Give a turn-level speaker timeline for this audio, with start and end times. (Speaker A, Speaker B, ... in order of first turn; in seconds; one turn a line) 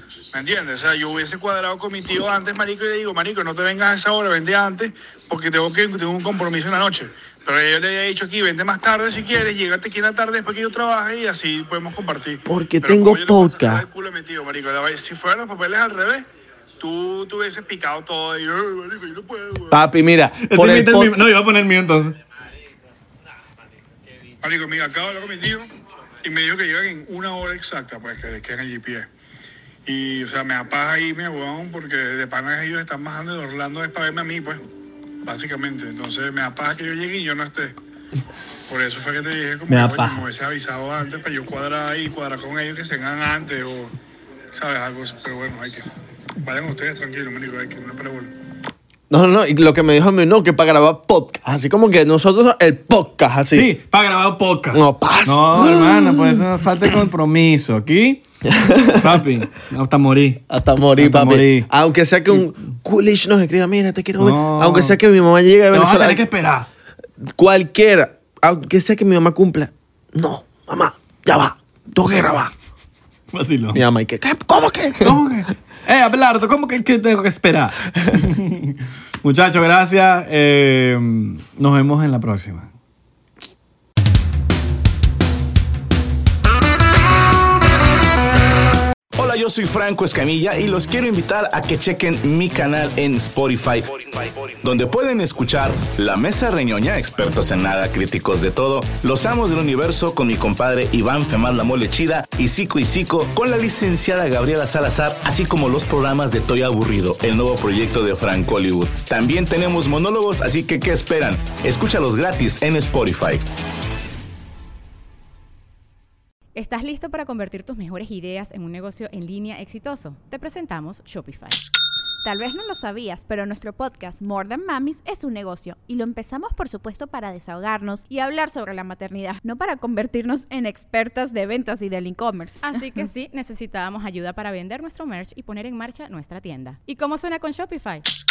Speaker A: 0.3-16.2
Speaker B: 12.5-13.8
Speaker A: 16.8-19.8
Speaker B: 19.7-21.2
Speaker C: 20.4-22.2
Speaker A: 24.4-25.7
Speaker A: 26.2-29.1
Speaker A: 29.9-34.6
Speaker A: 35.2-37.8
Speaker A: 38.7-43.9
Speaker C: 39.7-40.2
Speaker A: 44.5-45.9
Speaker A: 46.4-48.3
Speaker B: 49.1-53.7
Speaker C: 53.5-58.2
Speaker B: 54.7-56.5
Speaker B: 58.5-59.2
Speaker C: 58.9-60.4
Speaker B: 60.5-66.2
Speaker C: 61.0-61.7
Speaker C: 64.2-65.0
Speaker C: 65.7-66.7
Speaker B: 67.2-72.5
Speaker C: 73.3-73.8
Speaker B: 73.7-75.2
Speaker C: 75.0-82.7
Speaker D: 89.2-113.5
Speaker E: 116.5-121.6
Speaker F: 122.2-132.8
Speaker E: 132.6-138.0